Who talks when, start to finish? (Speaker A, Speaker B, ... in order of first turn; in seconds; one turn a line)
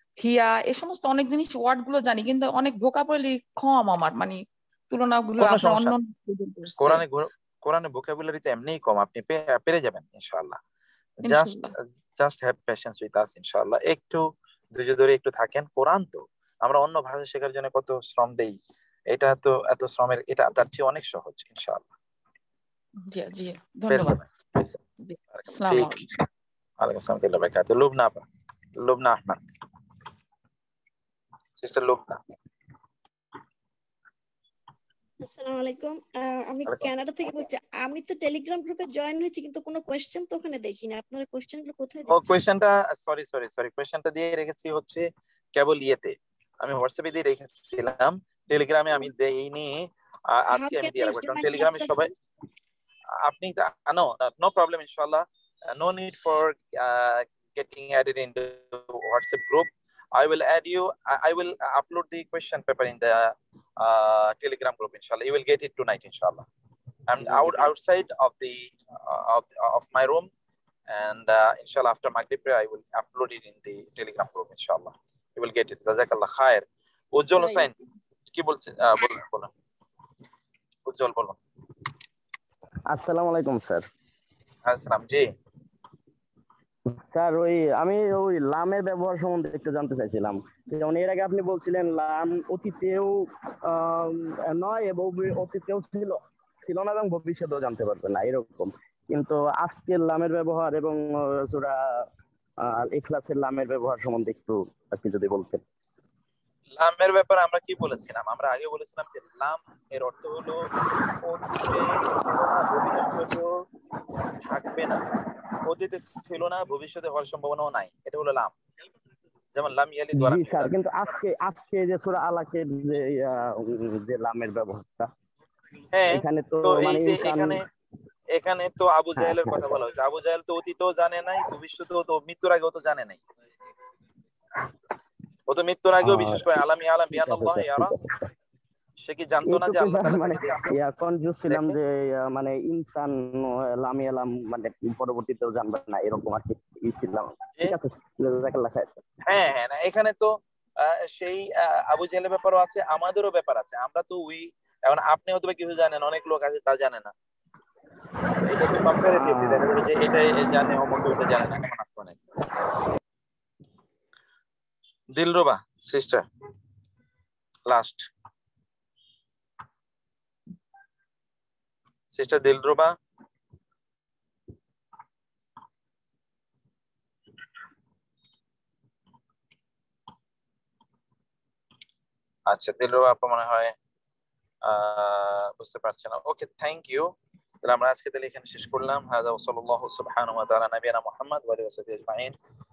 Speaker A: 0.2-7.0
Speaker B: 5.4-6.0
Speaker B: 6.8-10.6
Speaker B: 11.2-14.2
Speaker A: 11.2-11.7
Speaker B: 14.7-18.6
Speaker B: 19.1-21.9
Speaker A: 23.1-24.2
Speaker B: 23.9-24.8
Speaker A: 25.1-26.1
Speaker B: 25.3-26.1
Speaker B: 26.8-28.3
Speaker B: 28.8-29.4
Speaker B: 31.6-32.2
Speaker C: 35.2-42.4
Speaker B: 42.1-45.0
Speaker B: 45.6-49.8
Speaker B: 50.3-52.1
Speaker C: 50.5-52.1
Speaker B: 53.3-66.5
Speaker B: 67.1-70.3
Speaker D: 67.3-67.6
Speaker B: 70.9-77.7
Speaker B: 78.3-79.5
Speaker B: 80.9-81.4
Speaker D: 82.9-83.8
Speaker B: 84.7-85.3
Speaker D: 86.9-93.1
Speaker D: 93.6-102.1
Speaker D: 102.6-105.6
Speaker B: 106.8-110.6
Speaker B: 111.2-113.5
Speaker B: 114.4-115.0
Speaker B: 115.7-118.5
Speaker B: 119.5-121.2
Speaker D: 120.2-125.1
Speaker B: 125.9-127.6
Speaker D: 126.1-127.6
Speaker B: 128.3-133.2
Speaker D: 129.2-129.7
Speaker B: 135.5-138.0
Speaker D: 136.0-136.4
Speaker D: 137.1-138.2
Speaker B: 139.0-140.8
Speaker D: 139.4-149.0
Speaker B: 141.5-141.8
Speaker B: 149.2-157.1
Speaker B: 158.4-162.2
Speaker D: 159.1-159.7
Speaker B: 165.2-166.2
Speaker B: 167.7-168.1
Speaker B: 172.1-172.9
Speaker B: 182.5-183.7
Speaker B: 184.7-187.1
Speaker B: 187.6-192.3